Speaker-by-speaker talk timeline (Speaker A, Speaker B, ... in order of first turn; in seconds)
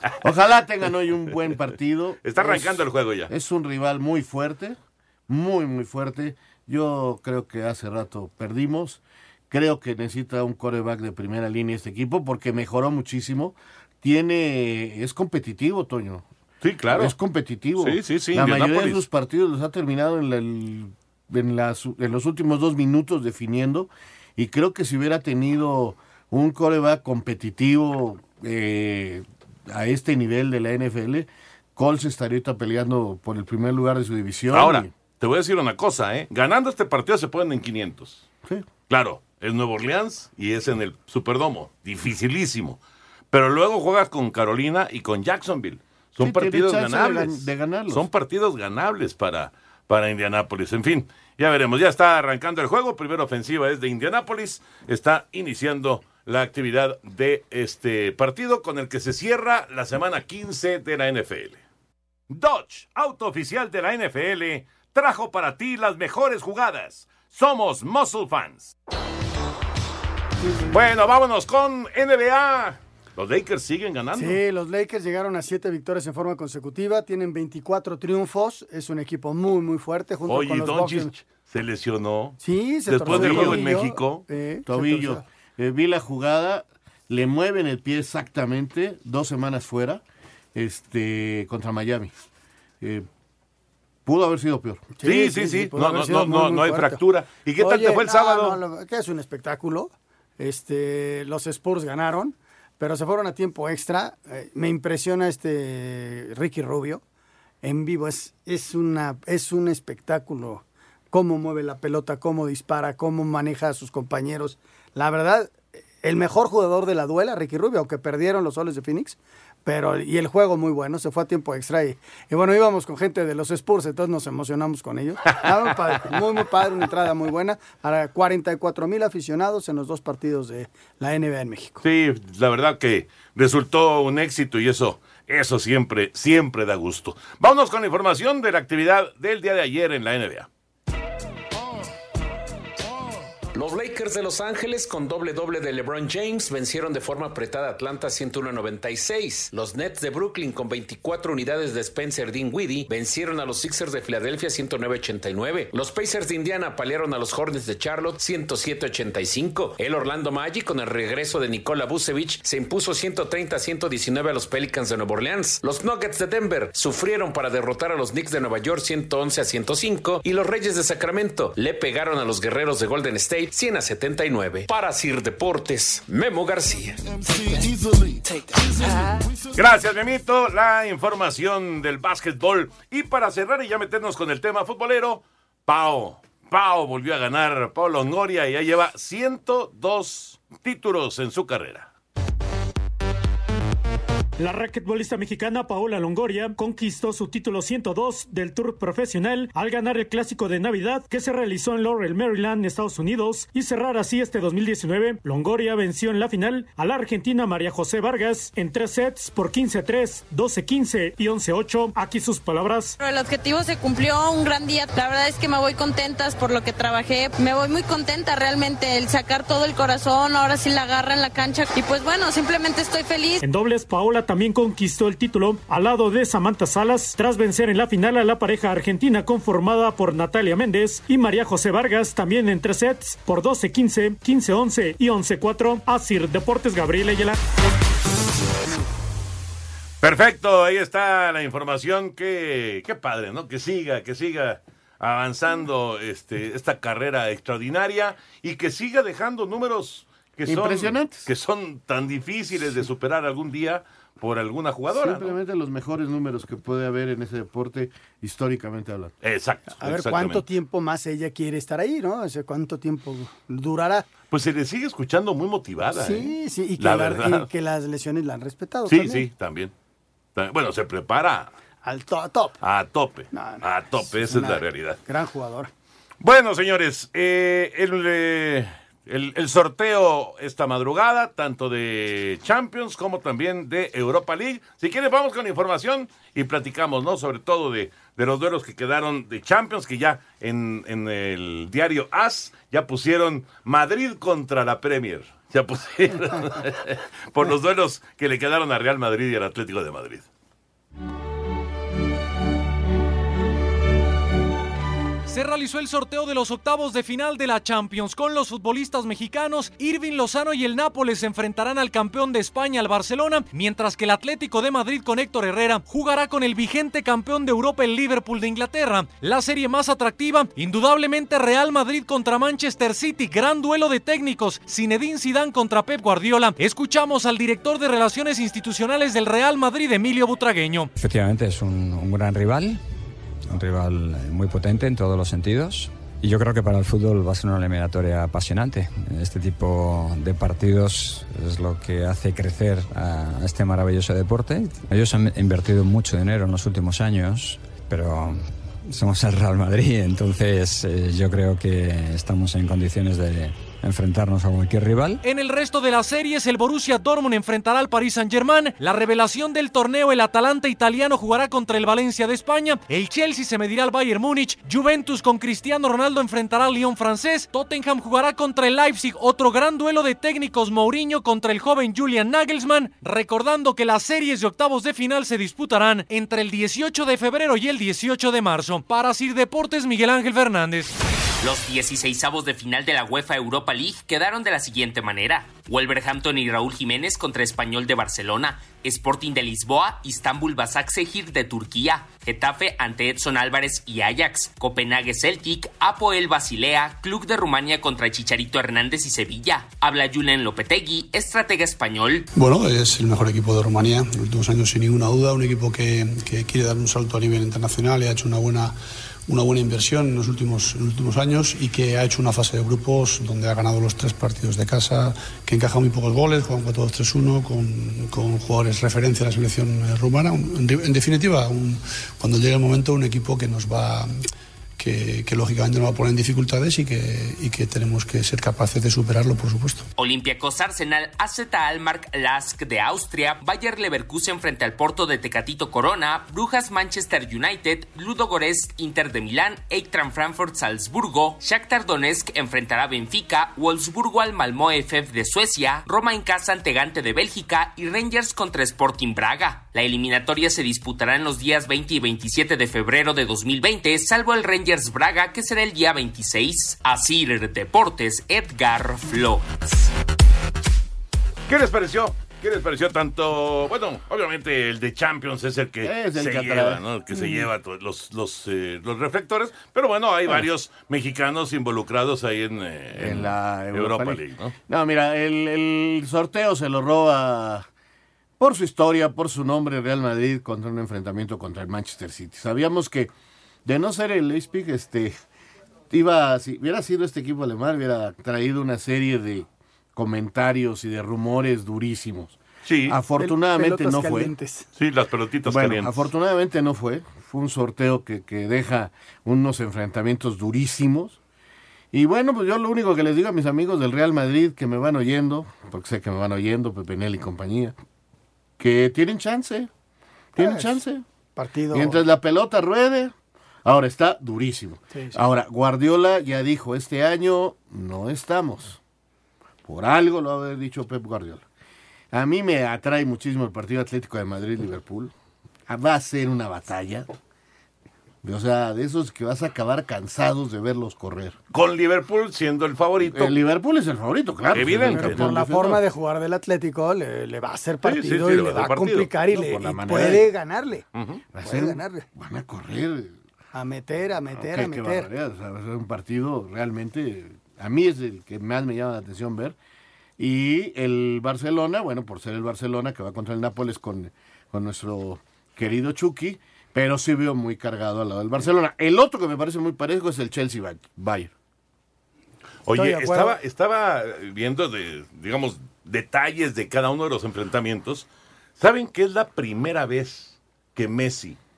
Speaker A: 0.2-4.8, 5.3-16.3, 16.9-34.9, 46.2-48.1, 83.1-83.6, 84.7-90.0, 90.5-92.2, 92.8-93.1, 94.1-94.9, 250.5-251.3, 254.9-259.1, 465.8-466.8, 473.0-477.7, 478.4-483.1, 483.6-485.2, 485.9-494.3, 495.5-501.2, 501.9-507.8, 508.6-509.7, 510.4-511.0, 511.7-513.1, 513.6-518.8, 519.7-521.5, 522.1-525.1, 525.7-527.1, 528.2-531.4, 533.0-535.8, 539.3-540.3, 541.3-543.2, 544.4-549.6, 550.2-561.3
Speaker B: 2.2-3.3, 16.6-17.1, 17.8-19.0, 34.5-38.2, 38.9-42.8, 43.3-61.6, 62.3-68.7, 70.7-74.4, 80.3-84.2, 95.0-98.6, 131.8-140.5, 179.6-191.9, 240.0-255.3, 259.2-260.4, 264.3-267.5, 268.9-269.7, 270.4-271.5, 272.6-275.0, 276.2-300.3, 461.5-474.5, 492.6-493.0, 494.8-496.1, 531.5-533.4, 534.5-535.2, 537.8-539.1, 541.0-541.2, 562.7-568.1, 568.6-571.4
Speaker C: 74.1-81.1, 82.4-85.2, 95.0-97.0, 97.6-107.0, 107.6-131.8, 259.8-264.1, 266.0-269.2, 271.8-272.6, 273.3-275.7, 493.2-494.7, 510.4-510.8, 511.4-512.0, 514.9-515.2, 534.9-540.9, 541.5-542.1, 543.5-545.1, 562.7-563.4
Speaker D: 143.5-177.0
Speaker E: 194.4-213.0, 223.4-237.4
Speaker F: 213.0-223.4
Speaker G: 305.3-330.9, 355.2-380.9
Speaker H: 331.0-332.8, 333.5-355.2
Speaker I: 381.4-402.3, 430.0-459.6
Speaker J: 402.3-424.2, 424.8-429.9